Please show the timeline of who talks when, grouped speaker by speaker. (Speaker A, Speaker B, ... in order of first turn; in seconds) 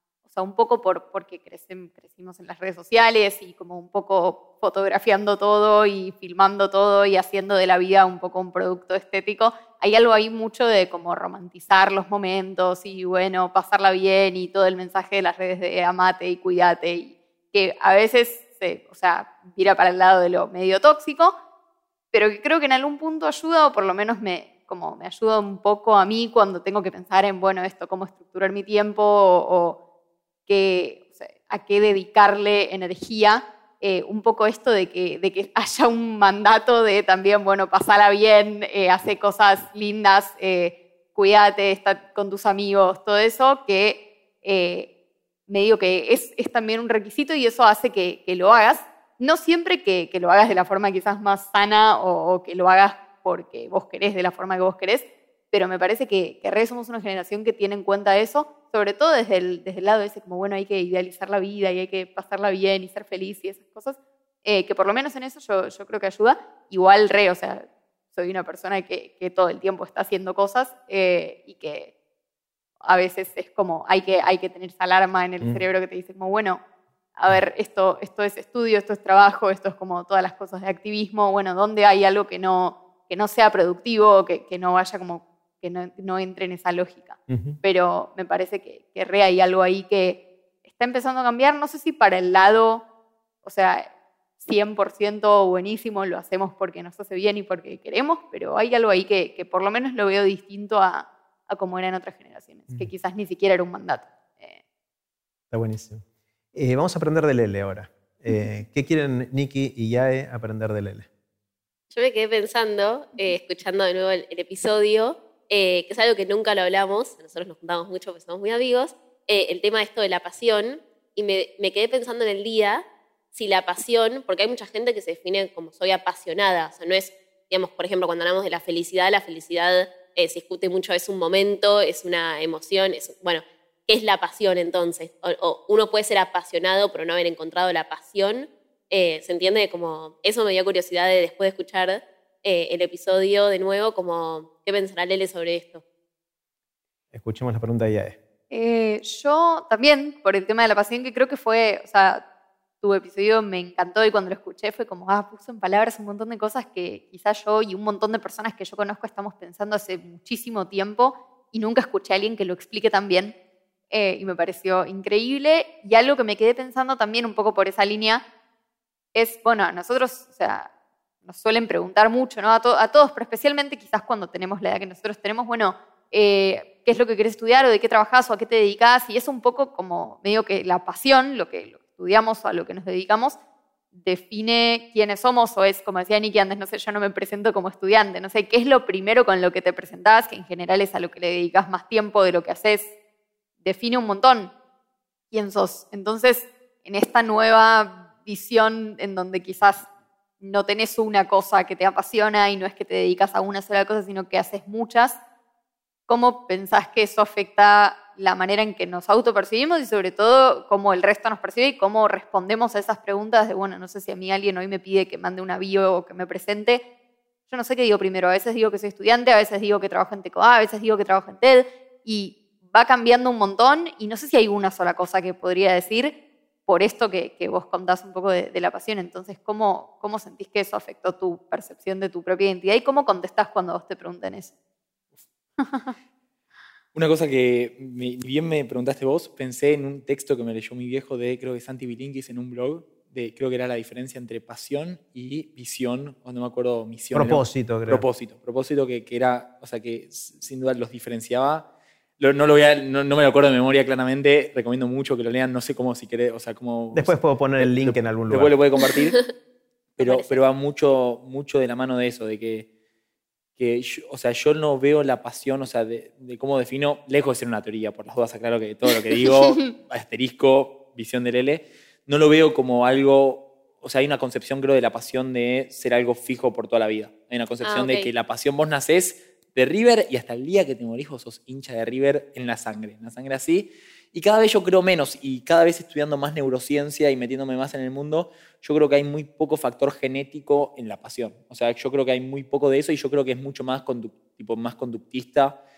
Speaker A: 0.3-21.4, 22.1-29.8, 30.5-44.9, 45.5-71.9, 72.8-76.6, 77.2-92.8, 93.4-93.9, 94.4-104.6, 148.5-152.2, 152.8-163.3, 163.9-168.2, 169.2-170.7, 171.2-183.4, 183.9-192.9, 193.6-194.5, 195.3-199.9, 200.4-205.2, 206.1-216.8, 217.5-226.2, 226.7-234.5, 235.6-235.9
Speaker B: 87.3-87.6, 105.5-111.1, 147.1-148.2, 247.1-248.0, 256.9-258.5
Speaker C: 111.9-145.8, 260.0-260.4, 277.6-278.1
Speaker D: 236.9-251.7, 252.2-259.2, 260.0-262.7, 263.6-295.6